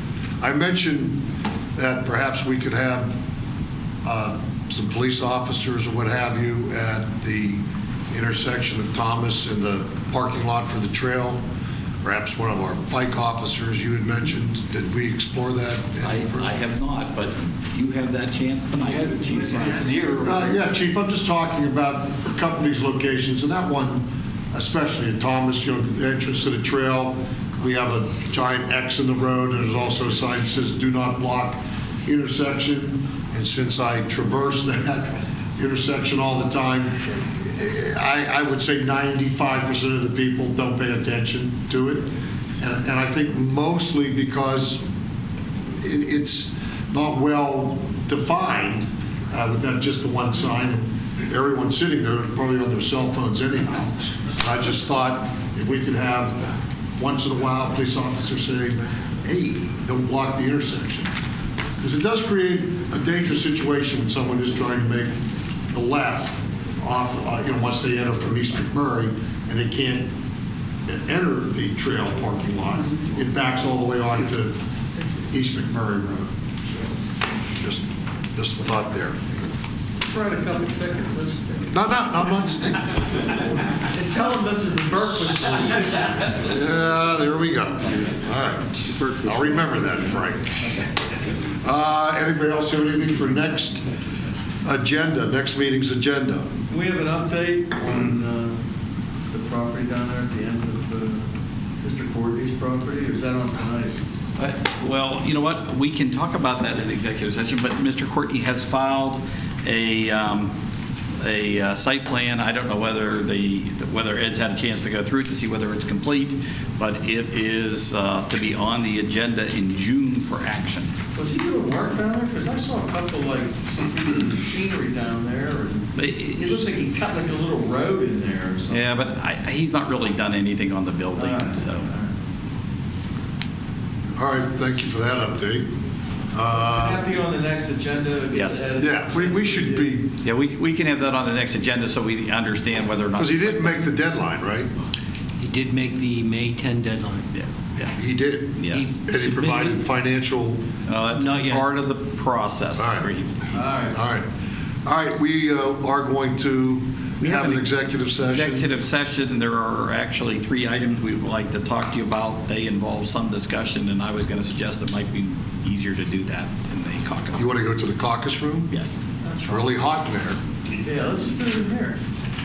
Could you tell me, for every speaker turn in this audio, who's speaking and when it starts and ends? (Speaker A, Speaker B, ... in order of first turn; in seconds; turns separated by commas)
Speaker A: 0.4-1.2, Speaker A: 1.7-3.2, Speaker A: 4.0-11.4, Speaker A: 12.0-16.6, Speaker B: 16.0-20.5, Speaker C: 19.6-20.1, Speaker A: 20.2-42.1, Speaker A: 42.6-44.8, Speaker A: 45.8-56.4, Speaker A: 57.0-61.1, Speaker A: 61.8-65.1, Speaker A: 65.7-70.1, Speaker A: 70.9-74.6, Speaker A: 75.3-76.9, Speaker A: 77.6-79.4, Speaker D: 80.0-81.7, Speaker A: 81.7-83.3, Speaker D: 83.8-86.4, Speaker A: 86.3-90.6, Speaker B: 88.7-89.8, Speaker A: 91.6-93.9, Speaker A: 94.6-96.5, Speaker D: 96.7-98.6, Speaker D: 99.3-101.3, Speaker D: 101.8-104.1, Speaker B: 104.4-110.5, Speaker B: 111.2-120.9, Speaker D: 121.2-128.9, Speaker B: 126.0-126.6, Speaker B: 128.7-131.9, Speaker D: 131.1-132.1, Speaker A: 134.2-135.7, Speaker A: 136.3-137.1, Speaker D: 136.5-139.9, Speaker B: 138.3-138.7, Speaker A: 138.8-140.2, Speaker B: 140.2-143.8, Speaker A: 143.2-144.7, Speaker C: 145.4-147.3, Speaker B: 147.3-147.9, Speaker A: 147.9-150.6, Speaker B: 148.6-148.9, Speaker C: 148.7-149.8, Speaker B: 150.9-153.6, Speaker C: 151.2-151.6, Speaker A: 152.8-153.1, Speaker D: 153.5-154.0, Speaker A: 153.9-154.3, Speaker A: 154.8-158.7, Speaker B: 157.2-167.6, Speaker A: 167.3-168.7, Speaker B: 168.7-169.0, Speaker D: 169.2-169.7, Speaker A: 169.4-170.4, Speaker D: 170.7-172.0